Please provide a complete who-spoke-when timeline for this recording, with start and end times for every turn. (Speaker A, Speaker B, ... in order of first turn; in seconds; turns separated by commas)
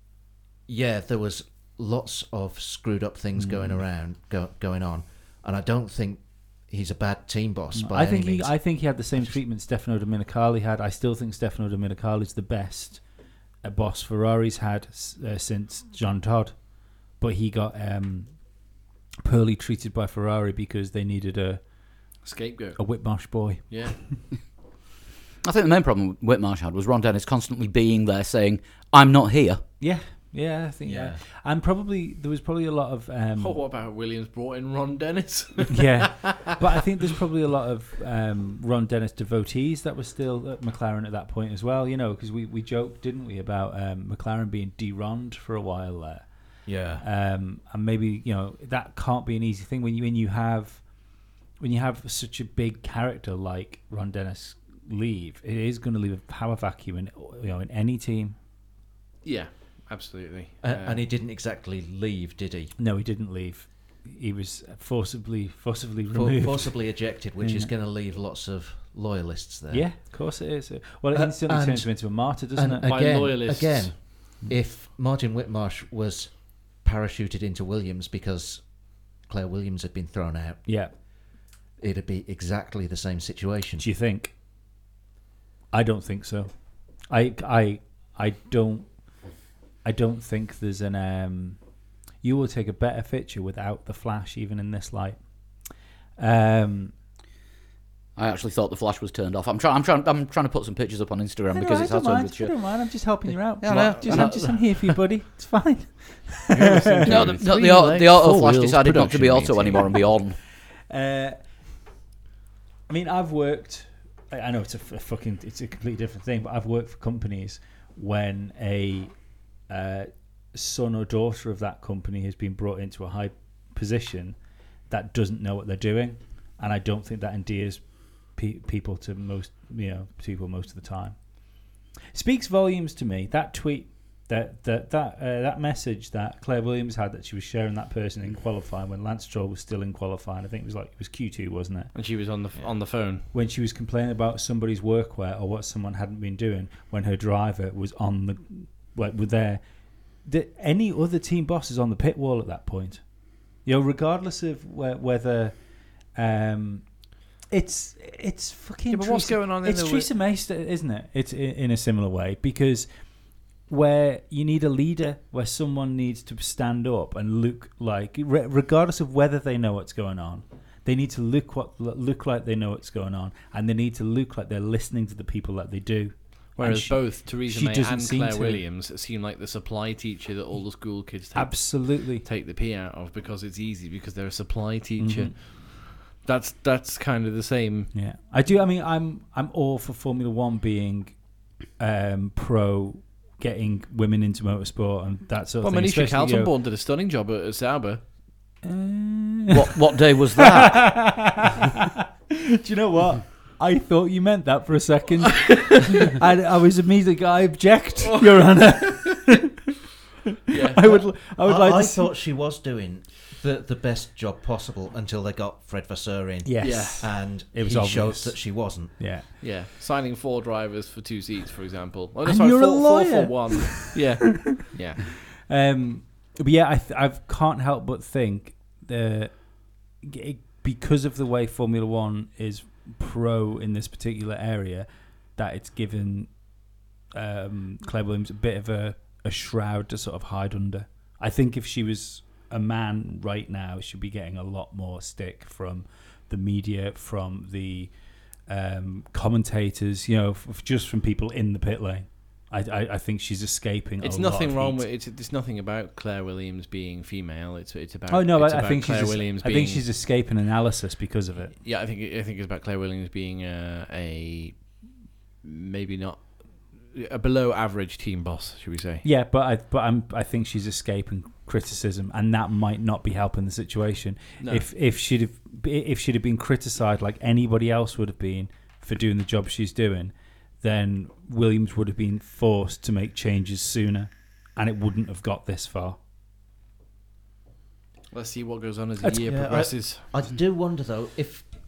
Speaker A: 0.7-8.6, Speaker B: 3.4-3.8, Speaker B: 7.7-13.0, Speaker B: 13.6-18.6, Speaker B: 19.2-21.6, Speaker C: 22.2-22.9, Speaker B: 22.8-23.8, Speaker C: 23.7-24.0, Speaker D: 25.4-29.6, Speaker B: 29.8-33.6, Speaker A: 30.8-31.2, Speaker C: 33.4-36.5, Speaker B: 35.7-46.2, Speaker A: 46.6-47.0, Speaker B: 47.0-50.8, Speaker B: 51.6-58.4, Speaker C: 59.2-61.0, Speaker A: 60.6-62.7, Speaker B: 62.8-66.8, Speaker A: 66.1-69.9, Speaker B: 67.4-67.7, Speaker B: 69.7-72.9, Speaker A: 71.1-78.7, Speaker C: 72.8-74.0, Speaker A: 79.2-80.6, Speaker B: 80.7-80.9, Speaker A: 81.8-83.8, Speaker B: 83.8-84.3, Speaker B: 85.7-86.5, Speaker B: 87.1-89.0, Speaker B: 89.8-91.6, Speaker B: 92.2-95.5, Speaker B: 96.2-96.9, Speaker D: 98.2-102.5, Speaker B: 101.5-107.2, Speaker D: 103.6-104.5, Speaker C: 104.0-104.5, Speaker C: 106.5-108.6, Speaker D: 107.0-110.4, Speaker A: 107.2-109.8, Speaker B: 110.9-111.4, Speaker B: 112.9-119.1, Speaker B: 119.7-124.4, Speaker B: 124.9-131.2, Speaker B: 132.1-141.9, Speaker C: 141.9-143.2, Speaker B: 143.3-149.6, Speaker B: 150.2-153.0, Speaker B: 153.6-155.6, Speaker B: 156.1-156.8, Speaker B: 157.5-162.9, Speaker C: 158.9-160.1, Speaker B: 163.7-178.6, Speaker C: 176.6-187.9, Speaker B: 181.3-182.2, Speaker B: 185.0-185.3, Speaker B: 187.9-196.5, Speaker C: 195.6-198.0, Speaker B: 198.6-209.6, Speaker D: 199.5-201.1, Speaker C: 210.5-211.0, Speaker B: 210.7-212.1, Speaker A: 210.8-219.0, Speaker B: 216.4-219.3, Speaker C: 216.6-217.0, Speaker C: 219.4-225.1, Speaker B: 222.2-224.5, Speaker B: 225.4-236.4, Speaker B: 237.1-247.9, Speaker B: 248.4-254.8, Speaker C: 254.0-259.9, Speaker B: 258.1-261.6, Speaker C: 261.6-264.9, Speaker C: 265.4-269.0, Speaker B: 269.0-286.0, Speaker C: 274.4-274.6, Speaker C: 288.1-290.1, Speaker A: 289.2-291.5